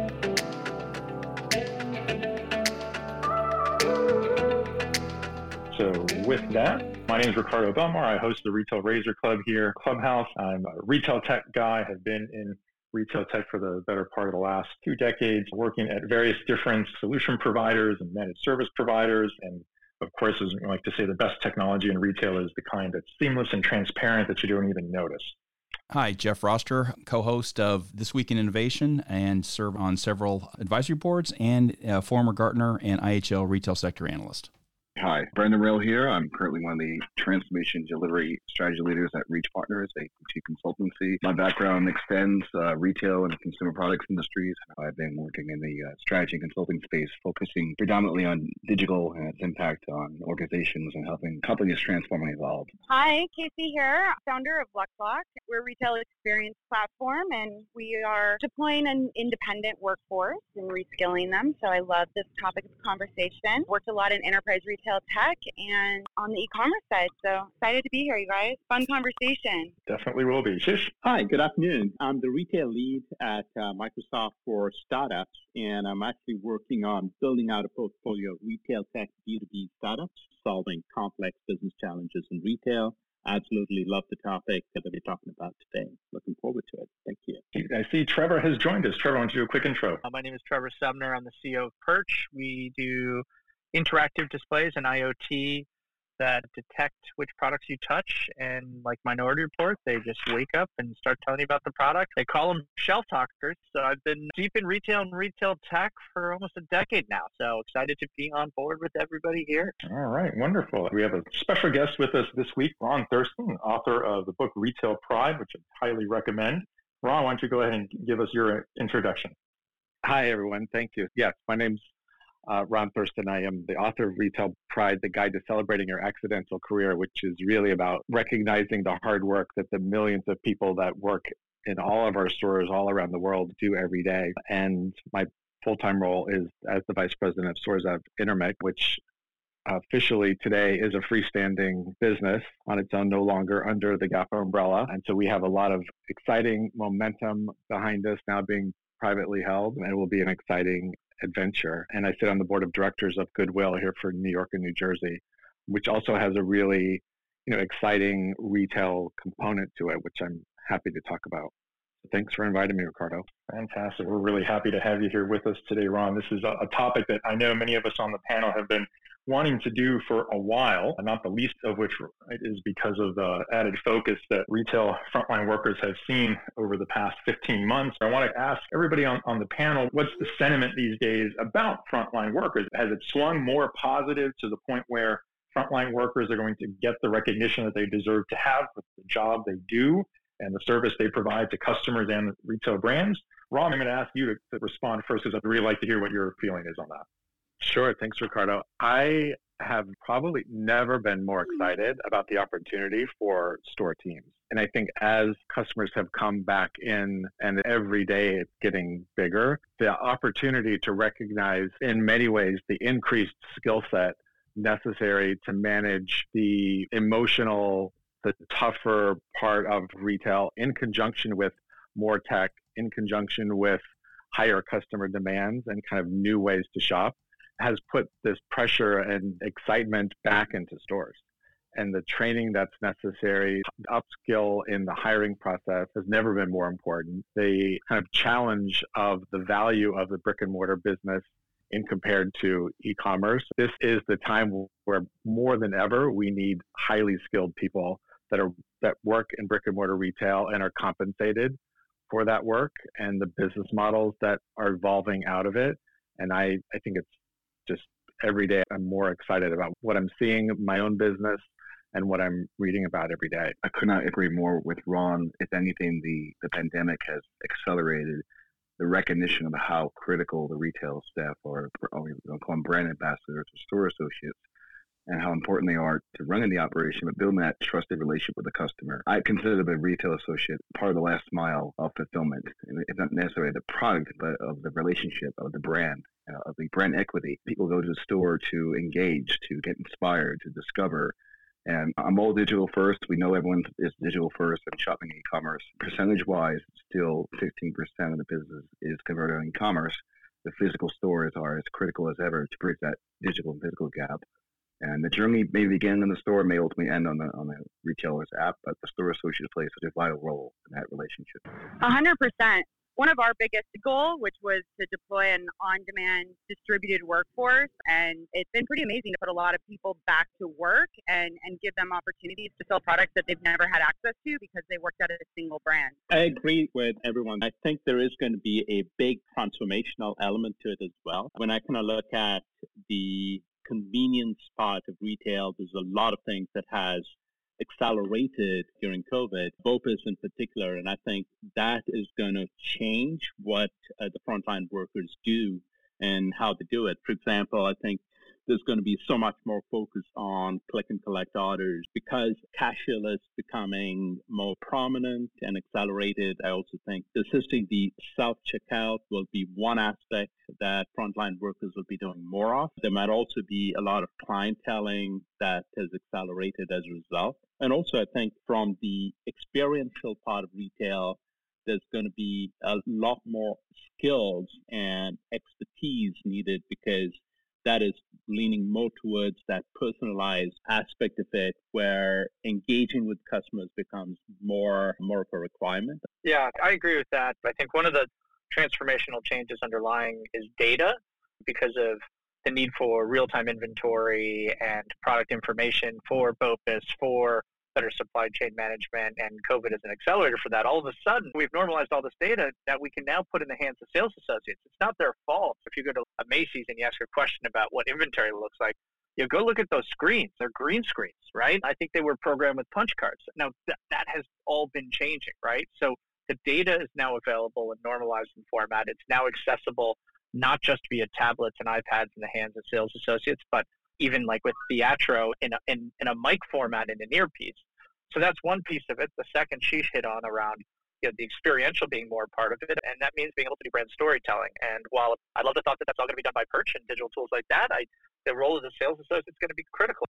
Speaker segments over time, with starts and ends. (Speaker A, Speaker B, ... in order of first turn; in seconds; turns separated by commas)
Speaker A: 5.7-25.4, Speaker B: 25.9-34.5, Speaker C: 35.0-52.7, Speaker D: 52.9-69.7, Speaker A: 69.9-70.9, Speaker E: 71.0-87.4, Speaker A: 87.5-90.0, Speaker F: 90.0-95.7, Speaker F: 96.2-109.8, Speaker A: 109.8-119.3, Speaker G: 120.0-121.9, Speaker G: 122.5-139.0, Speaker G: 139.7-161.5, Speaker G: 162.0-163.3, Speaker A: 163.5-197.1, Speaker G: 197.6-231.2, Speaker G: 231.8-251.6, Speaker G: 252.1-257.1, Speaker G: 257.7-263.6, Speaker C: 263.6-268.2, Speaker C: 268.8-274.4, Speaker C: 275.1-291.1, Speaker C: 291.7-304.2, Speaker C: 304.8-311.4, Speaker D: 311.8-326.0, Speaker E: 326.1-386.1, Speaker F: 386.2-440.1